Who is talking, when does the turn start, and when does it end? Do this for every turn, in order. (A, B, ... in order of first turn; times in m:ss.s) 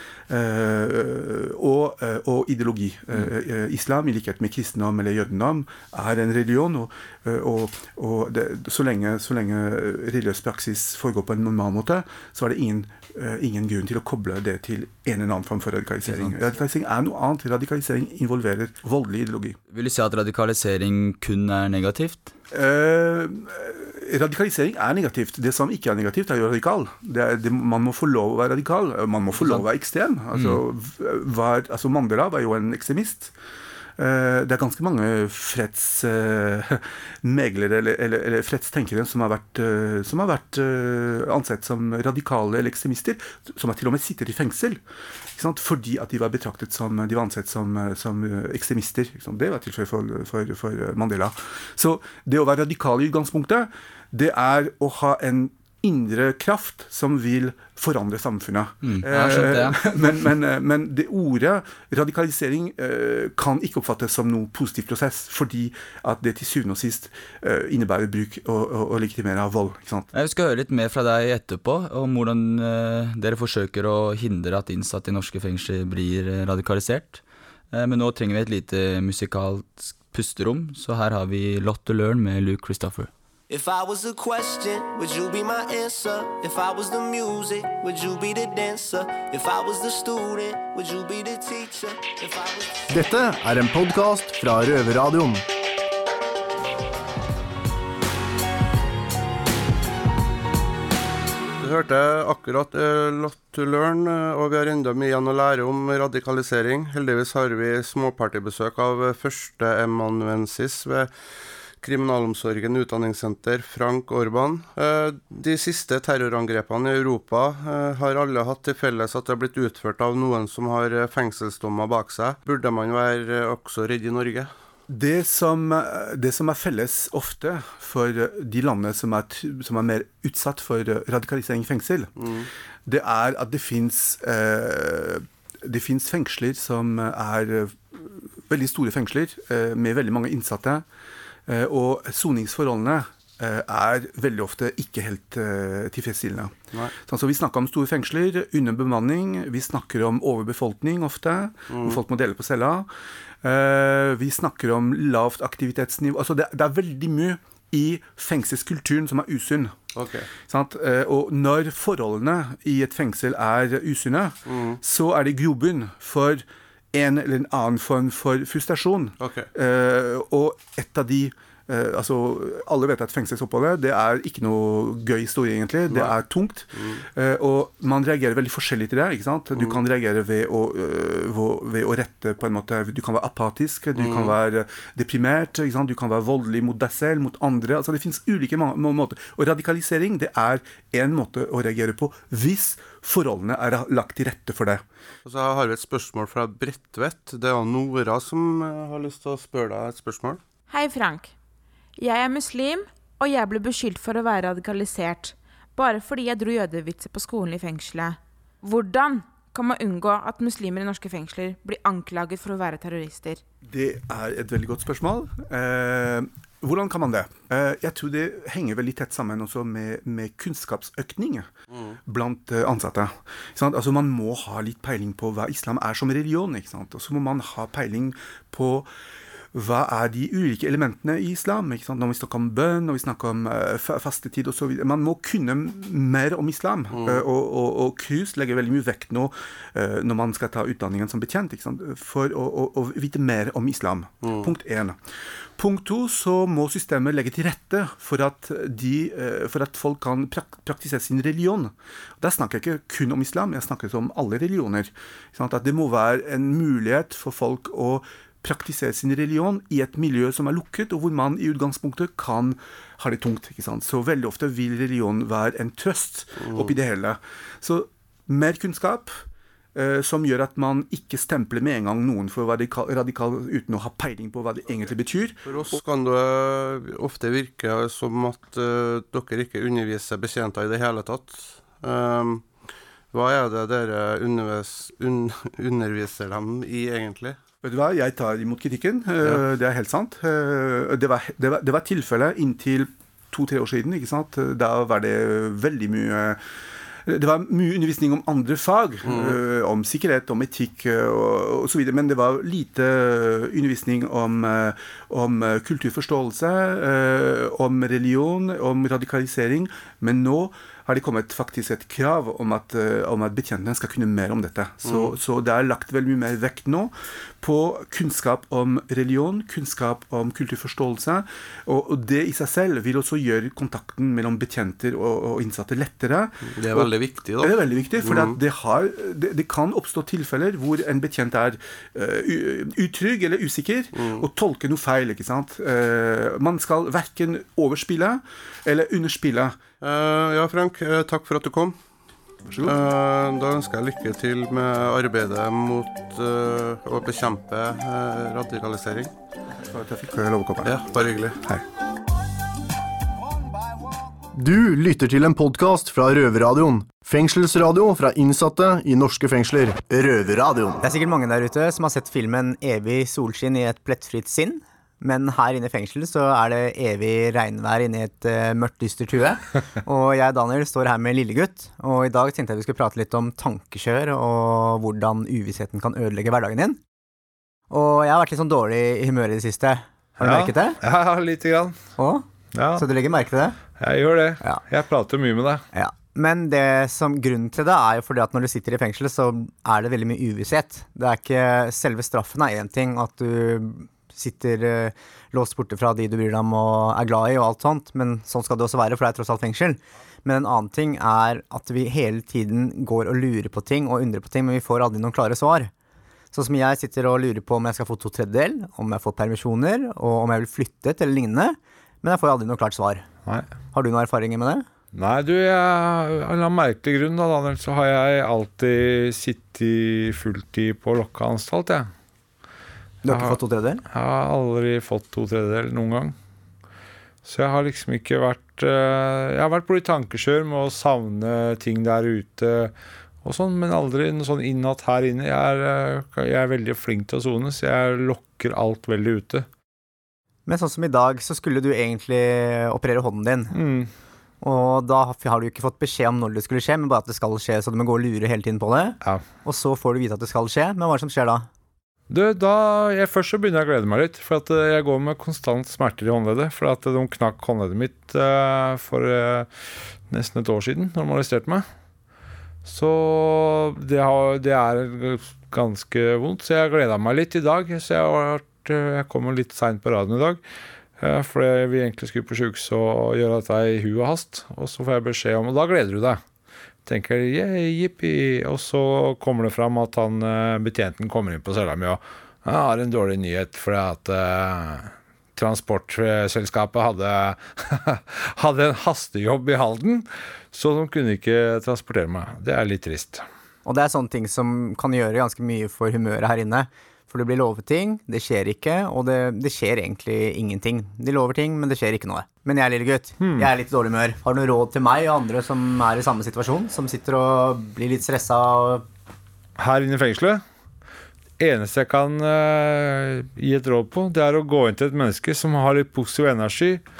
0:00.3-0:19.6 A
0:16.0-0:16.4 B
0:19.7-0:22.3 B
0:22.5-0:33.3 A
0:29.4-0:29.7 B
0:30.3-0:30.6 B
0:34.0-0:44.8 A
0:45.3-1:10.1 A
0:58.8-1:00.0 B
1:10.1-1:23.1 B
1:23.5-1:32.9 C
1:32.9-1:35.4 D
1:41.6-1:51.1 E
1:51.8-2:04.5 E
2:04.9-2:12.1 A
2:12.2-2:12.5 E
2:12.8-2:20.8 A
2:21.5-2:32.9 A
2:31.7-2:32.0 E
2:33.4-2:39.8 A
2:39.9-2:40.3 E
2:40.4-3:14.8 A
2:44.4-2:44.8 E
2:49.2-2:49.5 E
2:55.9-2:56.2 E
2:56.7-2:57.0 E
2:59.5-2:59.8 E
3:03.9-3:04.4 E
3:15.2-3:20.4 E
3:20.7-3:21.3 F
3:22.0-3:33.4 F
3:33.6-3:41.5 A
3:41.7-3:42.0 E
3:42.0-3:48.9 A
3:49.5-4:05.0 A
3:56.9-3:57.3 E
4:04.2-4:04.5 E
4:05.6-4:29.2 A
4:26.4-4:26.8 E
4:29.7-4:35.8 A
4:35.4-4:42.5 E
4:43.1-4:47.4 E
4:47.6-4:56.4 A
4:57.0-5:39.6 A
4:59.0-4:59.4 E
5:14.8-5:15.2 E
5:26.5-5:28.4 E
5:33.9-5:34.3 E
5:39.8-5:41.8 E
5:42.5-5:42.8 A
5:42.6-5:49.1 E
5:49.5-5:50.8 A
5:50.6-5:51.4 E
5:54.3-6:00.8 D
6:00.8-6:16.8 G
6:17.7-6:20.8 G
6:20.2-6:21.8 H
6:22.0-6:23.6 G
6:22.6-6:22.8 H
6:23.8-6:25.6 H
6:25.7-6:45.7 G
6:46.3-6:53.1 G
6:53.7-6:54.7 G
6:54.9-7:01.9 H
7:03.0-7:03.8 G
7:03.1-7:03.4 H
7:03.9-7:06.1 H
7:07.2-7:19.4 H
7:20.4-7:23.5 G
7:23.5-7:23.9 H
7:24.4-7:31.5 G
7:32.1-7:39.5 H
7:40.1-7:41.6 H
7:42.6-7:50.4 H
7:51.0-7:56.2 H
7:56.8-8:13.2 H
8:13.6-8:28.8 G
8:23.2-8:23.5 H
8:29.6-8:30.4 H
8:31.4-8:36.8 H